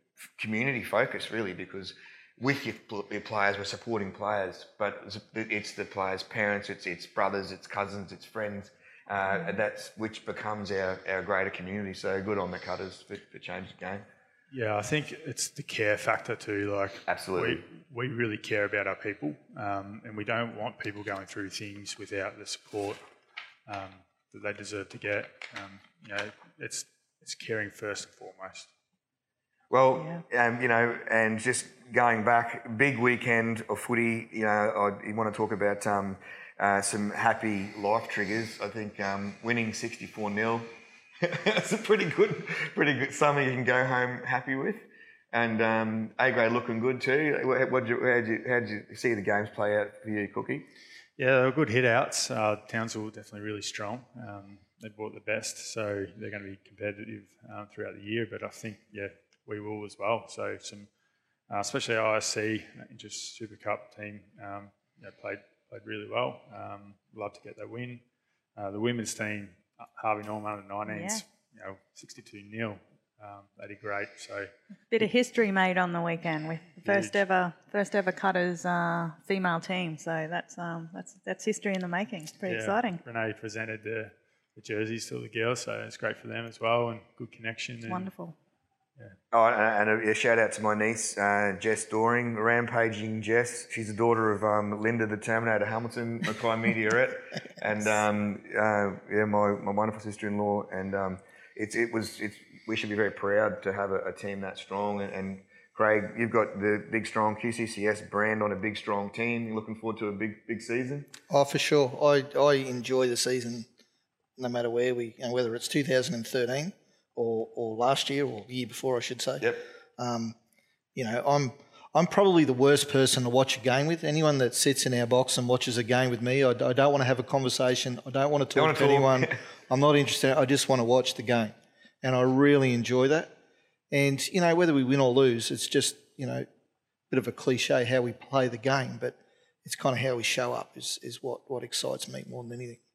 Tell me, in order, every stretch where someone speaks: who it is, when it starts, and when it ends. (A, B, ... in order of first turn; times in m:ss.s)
0:00.4-0:14.0 A
0:14.5-0:23.0 B
0:17.1-0:17.6 A
0:23.7-0:28.7 B
0:29.7-0:40.7 A
0:41.2-0:50.7 A
0:51.2-1:00.9 B
1:01.5-1:08.0 B
1:08.6-1:14.5 B
1:10.9-1:11.2 C
1:14.9-1:23.0 C
1:16.8-1:17.2 B
1:22.5-1:28.1 B
1:27.9-1:28.4 C
1:29.3-1:51.1 A
1:51.3-1:53.7 D
1:54.4-2:00.4 D
2:01.0-2:13.3 D
2:08.6-2:09.4 A
2:13.9-2:16.5 D
2:17.1-2:22.8 D